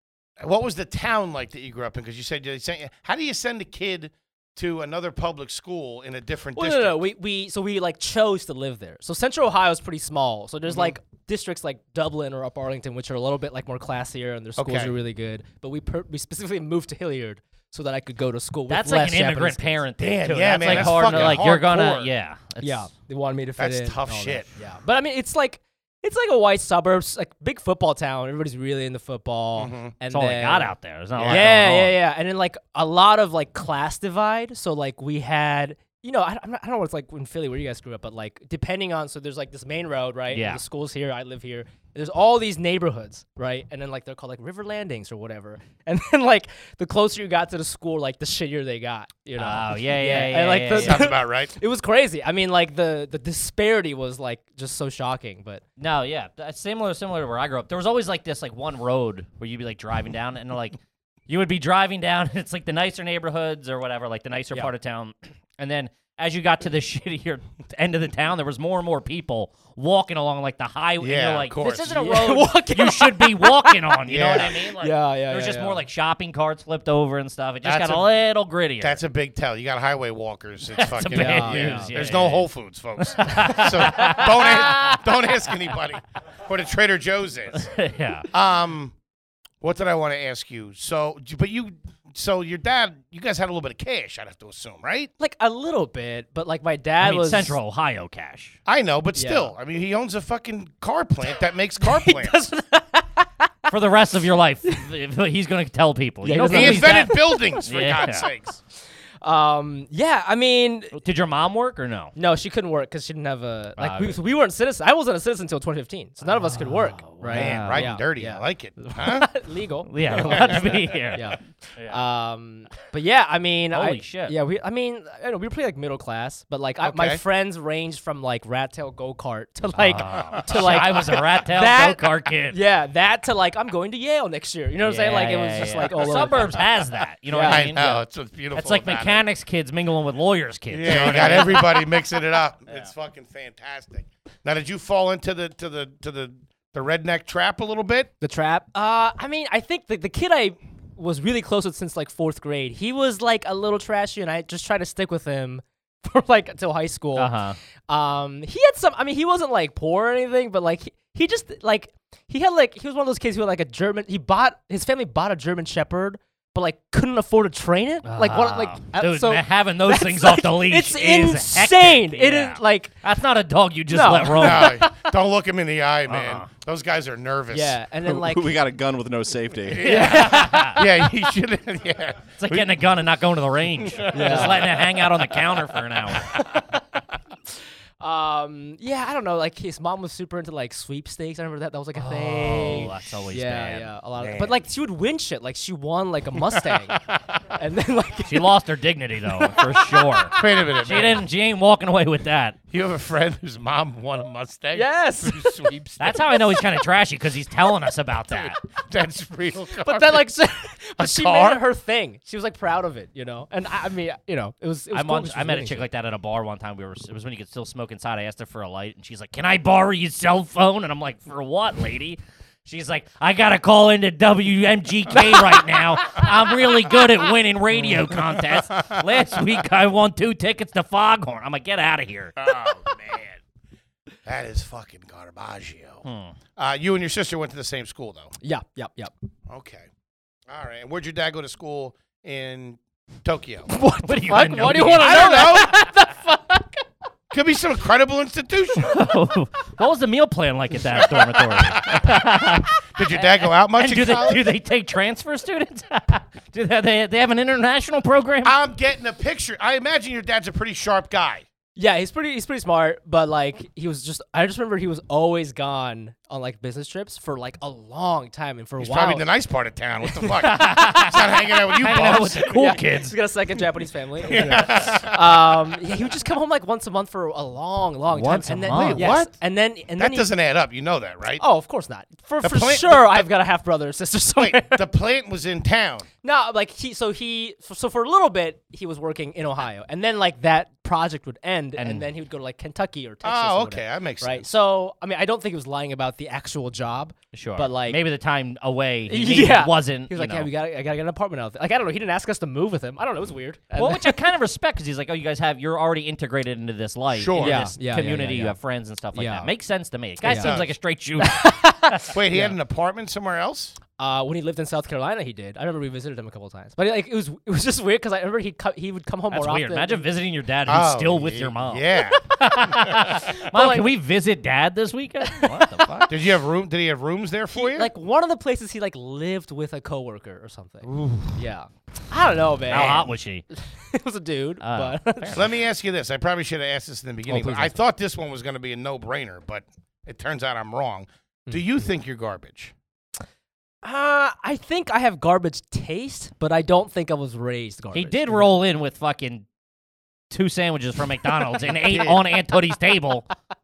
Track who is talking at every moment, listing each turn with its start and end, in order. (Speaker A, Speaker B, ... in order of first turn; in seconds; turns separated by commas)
Speaker A: 0.4-7.0, Speaker B: 6.5-19.8, Speaker A: 14.6-14.9, Speaker C: 18.7-22.9, Speaker A: 20.0-22.1, Speaker B: 20.6-21.4, Speaker B: 22.6-30.7, Speaker A: 23.6-24.5, Speaker A: 29.6-29.9, Speaker C: 30.1-32.0, Speaker A: 31.1-31.5, Speaker B: 31.2-55.6, Speaker C: 40.3-40.6, Speaker C: 49.4-51.0, Speaker A: 50.7-51.5, Speaker C: 55.8-79.0, Speaker A: 71.0-72.0, Speaker B: 71.9-75.8, Speaker A: 74.1-74.7, Speaker A: 77.6-78.1, Speaker A: 78.8-87.7, Speaker C: 80.8-82.5, Speaker B: 81.1-81.9, Speaker C: 83.0-85.0, Speaker B: 83.3-83.6, Speaker C: 87.6-88.3, Speaker A: 88.3-88.9, Speaker A: 89.6-95.1, Speaker B: 95.2-97.5, Speaker C: 97.0-98.6, Speaker A: 98.7-102.4, Speaker B: 99.1-99.5, Speaker B: 101.8-103.7, Speaker C: 103.7-108.3, Speaker B: 106.2-107.5, Speaker A: 106.5-108.6, Speaker B: 109.2-111.0, Speaker C: 110.9-112.1, Speaker B: 112.1-136.6, Speaker C: 113.8-114.2, Speaker C: 116.3-117.9, Speaker A: 117.3-119.3, Speaker C: 119.9-122.0, Speaker A: 120.2-120.7, Speaker C: 123.7-124.3, Speaker A: 126.8-127.2, Speaker C: 129.8-132.6, Speaker C: 134.8-137.9, Speaker B: 137.3-138.0, Speaker A: 137.4-139.2, Speaker C: 138.5-141.8, Speaker A: 140.7-148.1, Speaker B: 140.9-141.3, Speaker B: 148.2-157.3, Speaker C: 157.2-157.6, Speaker B: 157.9-172.9, Speaker C: 168.0-174.8, Speaker B: 173.9-174.9, Speaker A: 174.3-177.8, Speaker C: 176.1-176.5, Speaker B: 177.5-178.5, Speaker D: 178.0-179.9, Speaker A: 179.7-182.8, Speaker B: 179.8-180.7, Speaker C: 179.8-180.8, Speaker C: 182.4-186.4, Speaker A: 183.8-185.2, Speaker B: 184.1-184.7, Speaker B: 186.3-186.7, Speaker B: 188.0-197.0, Speaker C: 191.9-193.9, Speaker A: 194.2-194.5, Speaker B: 197.5-198.5, Speaker C: 198.3-202.6, Speaker B: 199.4-200.4, Speaker A: 200.3-201.2, Speaker A: 202.7-206.4, Speaker B: 204.7-205.6, Speaker C: 206.0-208.6, Speaker A: 208.3-210.3, Speaker B: 209.8-215.8, Speaker A: 211.0-211.6, Speaker C: 214.9-232.4, Speaker A: 232.4-233.4, Speaker A: 234.2-236.0, Speaker C: 236.0-236.3, Speaker A: 236.6-238.3, Speaker B: 238.4-239.1, Speaker A: 239.5-239.9, Speaker A: 240.5-243.7, Speaker B: 243.7-246.8, Speaker C: 244.0-245.6, Speaker A: 244.8-245.7, Speaker A: 247.3-249.0, Speaker C: 248.8-258.6, Speaker A: 251.1-254.5, Speaker A: 258.4-261.4, Speaker B: 261.8-269.2, Speaker A: 268.8-272.5, Speaker C: 270.4-273.1, Speaker B: 271.8-280.3, Speaker A: 274.2-275.5, Speaker C: 278.1-279.1, Speaker A: 278.8-279.3, Speaker A: 280.0-281.4, Speaker B: 281.4-284.8, Speaker A: 282.4-283.3, Speaker A: 284.4-286.1, Speaker B: 286.2-298.0, Speaker C: 291.8-292.1, Speaker A: 293.2-294.5, Speaker C: 297.3-300.5, Speaker B: 299.1-304.1, Speaker C: 303.8-311.6, Speaker A: 307.1-307.7, Speaker B: 307.4-308.6, Speaker B: 309.1-309.5, Speaker B: 310.2-310.6, Speaker A: 310.3-310.7, Speaker B: 311.2-312.5, Speaker A: 312.1-313.8, Speaker B: 314.0-320.0, Speaker C: 319.3-326.1, Speaker A: 320.7-322.2, Speaker B: 322.2-322.5, Speaker B: 323.3-323.9, Speaker B: 325.3-326.1, Speaker A: 326.1-327.9, Speaker B: 327.5-335.4, Speaker A: 330.9-331.3, Speaker C: 332.7-333.4, Speaker C: 334.6-335.5, Speaker A: 335.3-342.7, Speaker B: 337.3-337.7, Speaker B: 343.8-348.5, Speaker C: 347.9-349.4, Speaker C: 350.3-353.3, Speaker A: 351.8-352.2